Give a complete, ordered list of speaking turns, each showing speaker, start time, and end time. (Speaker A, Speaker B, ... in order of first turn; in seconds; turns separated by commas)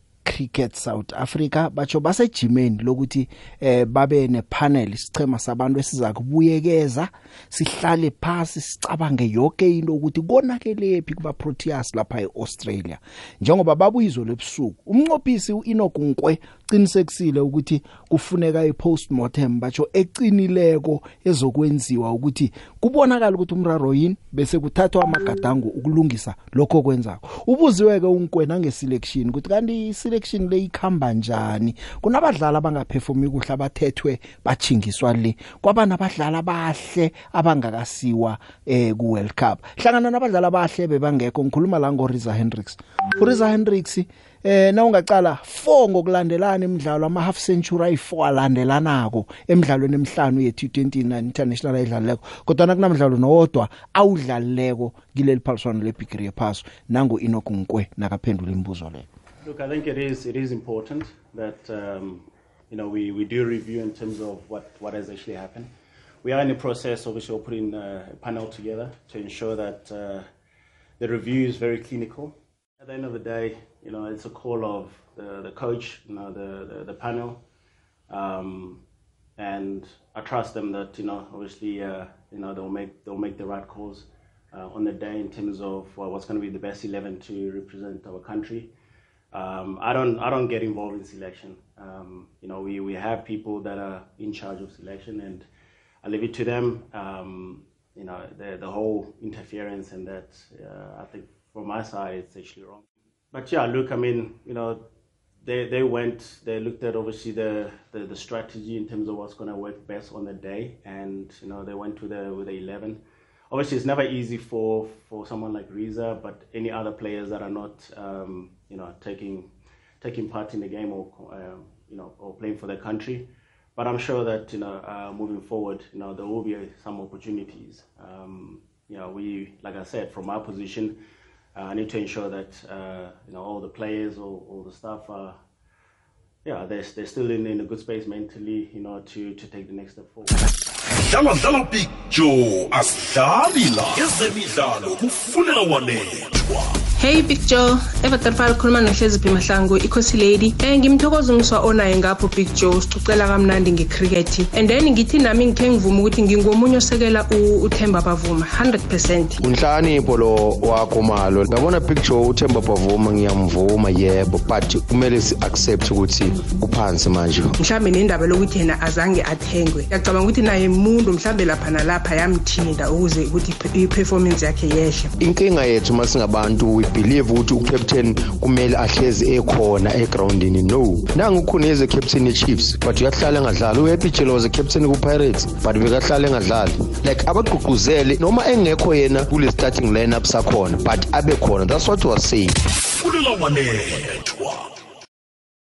Speaker A: 0.2-59.1, Speaker B: 59.4-65.7, Speaker B: 66.2-70.3, Speaker B: 71.0-77.4, Speaker B: 78.1-78.8, Speaker B: 79.4-88.7, Speaker B: 89.3-95.5, Speaker B: 96.0-104.8, Speaker B: 105.4-131.0, Speaker B: 131.6-135.4, Speaker B: 136.4-140.4, Speaker C: 141.0-146.8, Speaker D: 147.0-159.4, Speaker E: 159.4-167.5, Speaker D: 167.6-175.1, Speaker E: 175.2-192.6, Speaker C: 192.9-194.7